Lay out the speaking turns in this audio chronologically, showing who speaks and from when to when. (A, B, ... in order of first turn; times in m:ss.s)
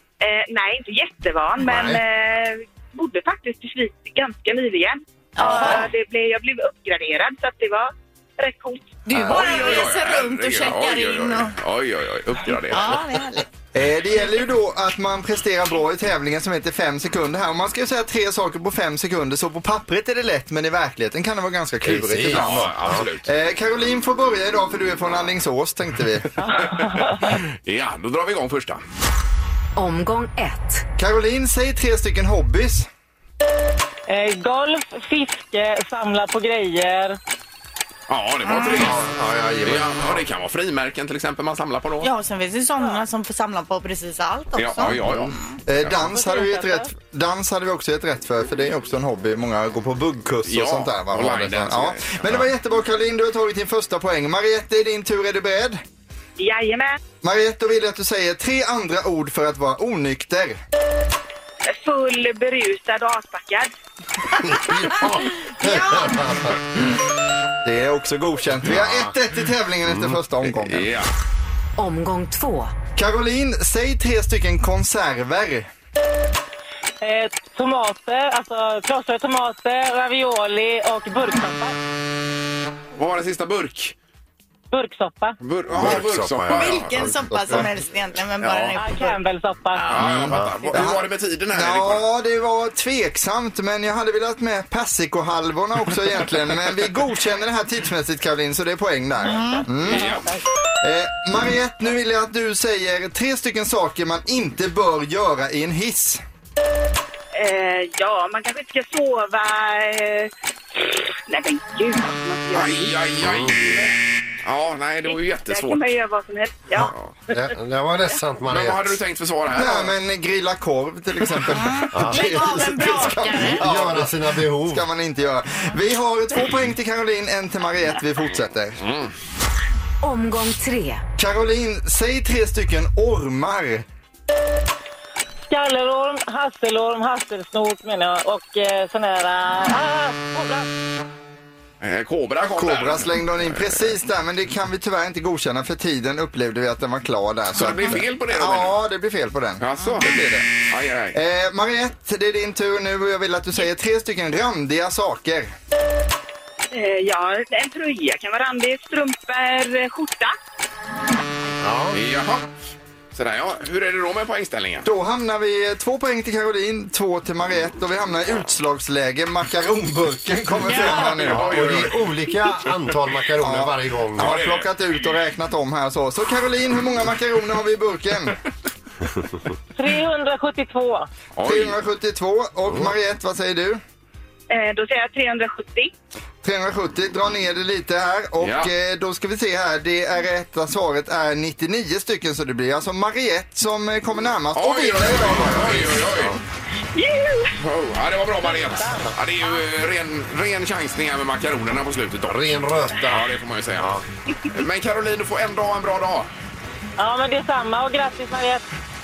0:00.2-0:09.8 A
0:01.6-0:02.0 B
0:05.4-0:05.9 C
0:09.1-0:11.6 C
0:09.2-0:13.0 D
0:12.5-0:13.5 C
0:13.7-0:22.7 E
0:21.8-0:23.1 B
0:22.2-0:23.3 D
0:23.2-0:26.3 E
0:26.4-0:27.4 F
0:26.9-0:28.8 D
0:29.8-0:30.9 G
0:31.0-0:32.9 E
0:34.1-0:37.2 F
0:38.1-0:39.1 D
0:38.5-0:38.8 C
0:38.6-0:40.2 B
0:39.6-0:42.1 D
0:42.0-0:45.6 C
0:44.6-0:45.4 D
0:45.7-0:55.8 E
0:46.1-0:46.9 F
0:50.4-0:52.5 D
0:56.4-0:57.0 A
0:57.2-1:00.6 E
1:01.7-1:03.7 A
1:04.4-1:06.6 B
1:05.6-1:06.2 C
1:07.6-1:10.9 E
1:08.6-1:09.2 B
1:09.9-1:10.2 B
1:10.6-1:11.1 D
1:11.8-1:12.8 G
1:13.0-1:15.7 E
1:17.0-1:21.8 F
1:23.0-1:24.0 D
1:24.7-1:25.4 F
1:25.4-1:26.9 D
1:25.7-1:27.6 B
1:26.5-1:29.2 C
1:28.4-1:28.8 D
1:28.8-1:29.9 F
1:29.8-1:30.0 C
1:29.9-1:32.1 D
1:30.0-1:30.5 B
1:30.8-1:31.0 E
1:31.5-1:40.2 E
1:39.3-1:39.7 C
1:39.8-1:40.3 D
1:39.9-1:40.4 F
1:40.8-1:46.2 E
1:47.3-1:53.0 A
1:52.5-1:55.9 D
1:53.2-1:53.8 B
1:55.1-1:56.9 A
1:56.8-1:57.2 D
1:56.8-1:59.0 B
1:58.5-1:59.9 D
1:59.5-2:08.8 E
2:01.6-2:03.7 C
2:01.9-2:02.2 B
2:03.4-2:04.9 B
2:08.8-2:09.1 D
2:10.0-2:11.0 G
2:11.2-2:13.8 E
2:15.5-2:20.7 F
2:21.8-2:24.0 D
2:22.5-2:30.4 E
2:27.5-2:28.8 D
2:29.6-2:31.2 D
2:31.1-2:35.5 E
2:36.7-2:40.3 A
2:41.6-2:42.0 B
2:41.9-2:42.5 D
2:43.1-2:44.9 D
2:44.8-2:51.9 E
2:50.7-2:52.0 D
2:51.2-2:54.4 B
2:53.4-2:58.4 E
2:54.2-2:54.7 D
2:59.8-3:01.1 F
3:01.4-3:01.8 D
3:01.4-3:03.8 E
3:04.5-3:05.9 A
3:06.4-3:16.0 E
3:08.4-3:08.7 D
3:14.5-3:16.4 D
3:17.0-3:17.6 A
3:17.6-3:22.4 D
3:18.4-3:19.1 F
3:22.2-3:24.0 B
3:23.0-3:24.0 D
3:24.5-3:26.3 D
3:27.0-3:28.6 F